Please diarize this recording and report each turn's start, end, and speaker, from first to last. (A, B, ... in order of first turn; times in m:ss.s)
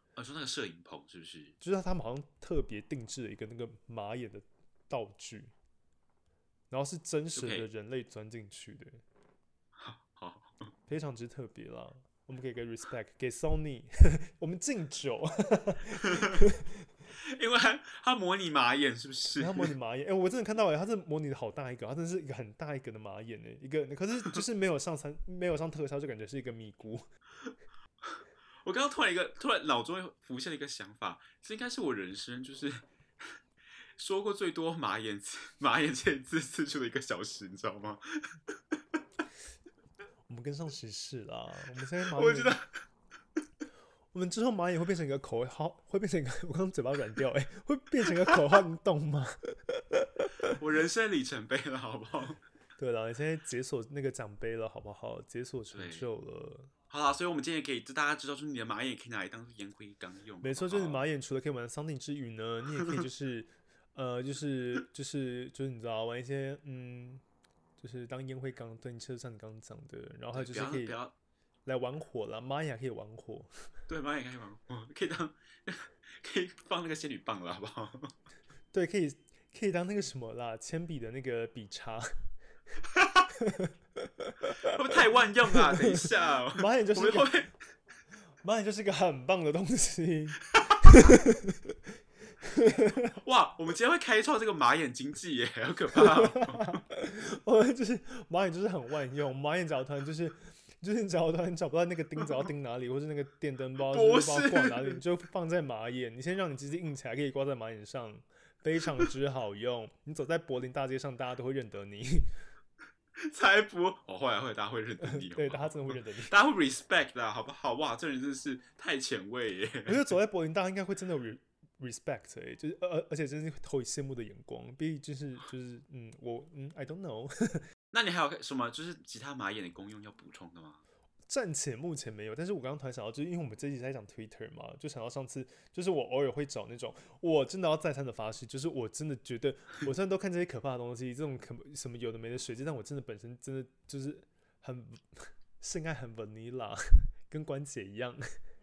0:00.2-0:01.6 A
0:01.6-0:05.5 B
0:06.7-0:09.0 B
0:07.3-0:07.7 A
0:09.8-0:10.7 A
0:10.9-0:16.9 B
0:16.0-0:16.3 A
0:17.1-0:19.7 A
0:19.4-0:27.0 B
0:28.0-0:33.4 A
0:34.0-0:38.8 A
0:40.3-0:42.6 B
0:42.0-0:42.8 A
0:44.1-0:50.5 B
0:50.5-0:52.4 A
0:52.8-0:56.7 B
0:55.7-0:56.1 A
0:56.9-1:01.0 A
1:00.4-1:07.2 B
1:07.8-1:11.0 B
1:10.3-1:11.1 A
1:11.7-1:13.5 B
1:13.9-1:18.2 A
1:18.7-1:22.1 B
1:22.9-1:23.3 A
1:23.3-1:24.7 B
1:24.6-1:27.5 A
1:25.5-1:27.3 B
1:28.4-1:31.8 B
1:30.6-1:30.9 A
1:32.4-1:33.1 B
1:33.2-1:36.8 A
1:35.9-1:52.3 B
1:43.9-1:45.0 A
1:53.2-2:00.0 A
1:55.0-1:56.3 B
1:59.9-2:07.6 B
2:07.9-2:10.8 A
2:11.3-2:28.3 B